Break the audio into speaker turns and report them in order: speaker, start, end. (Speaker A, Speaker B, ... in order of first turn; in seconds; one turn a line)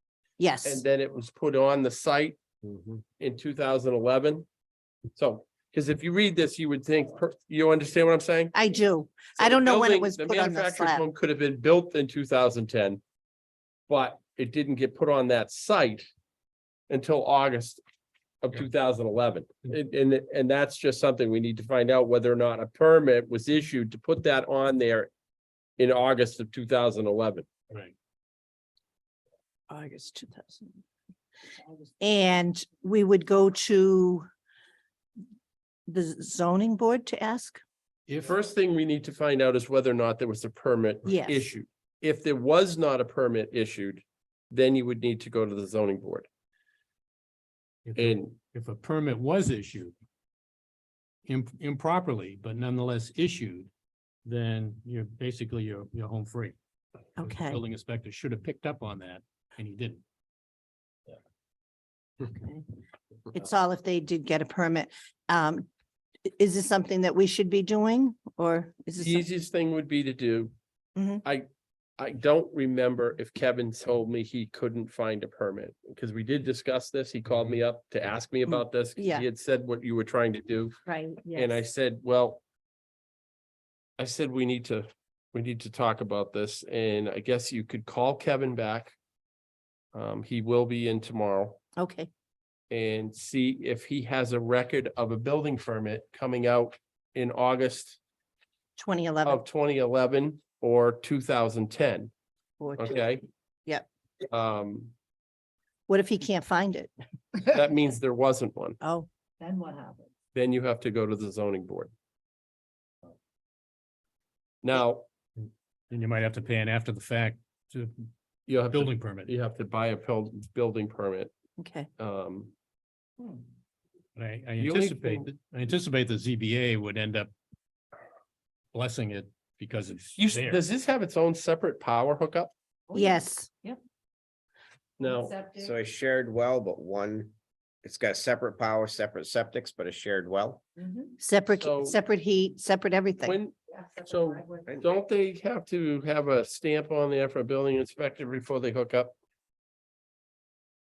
Speaker A: 0.4-0.8
Speaker B: 0.6-2.4
Speaker C: 2.6-3.0
Speaker B: 3.2-4.5
Speaker B: 5.2-8.6
Speaker A: 8.5-11.1
Speaker B: 9.4-13.0
Speaker B: 13.9-16.1
Speaker B: 16.9-17.8
Speaker B: 18.4-25.1
Speaker B: 25.8-27.5
Speaker A: 29.7-30.8
Speaker A: 32.0-34.3
Speaker A: 35.9-37.6
Speaker D: 38.1-38.4
Speaker B: 38.2-46.3
Speaker A: 41.0-41.5
Speaker D: 47.9-50.0
Speaker B: 48.0-48.4
Speaker D: 51.3-53.7
Speaker D: 54.2-56.6
Speaker D: 57.2-60.0
Speaker A: 57.2-57.6
Speaker A: 62.2-62.7
Speaker A: 63.3-65.7
Speaker A: 66.3-69.3
Speaker B: 69.0-70.5
Speaker A: 71.0-71.2
Speaker B: 72.0-80.8
Speaker A: 78.5-79.2
Speaker A: 80.9-81.6
Speaker B: 81.3-82.4
Speaker B: 84.0-89.0
Speaker B: 89.9-91.6
Speaker A: 91.8-92.1
Speaker B: 92.7-98.0
Speaker A: 98.8-99.4
Speaker B: 99.2-102.1
Speaker A: 102.6-103.1
Speaker B: 102.8-103.2
Speaker B: 104.3-104.9
Speaker A: 105.9-107.5
Speaker B: 107.5-108.8
Speaker A: 108.8-109.1
Speaker E: 109.4-110.1
Speaker B: 110.3-111.9
Speaker B: 114.6-115.0
Speaker D: 115.4-118.1
Speaker B: 118.5-121.3
Speaker D: 118.6-119.3
Speaker A: 121.6-121.9
Speaker B: 122.0-122.5
Speaker D: 124.2-127.3
Speaker B: 124.6-125.3
Speaker D: 128.7-130.6
Speaker B: 130.2-132.5
Speaker E: 132.9-133.8
Speaker A: 132.9-133.5
Speaker B: 135.0-135.3
Speaker C: 135.6-137.3
Speaker C: 137.8-140.6
Speaker E: 140.8-141.1
Speaker A: 141.2-143.4
Speaker B: 141.5-142.0
Speaker B: 143.2-149.2
Speaker E: 143.7-144.6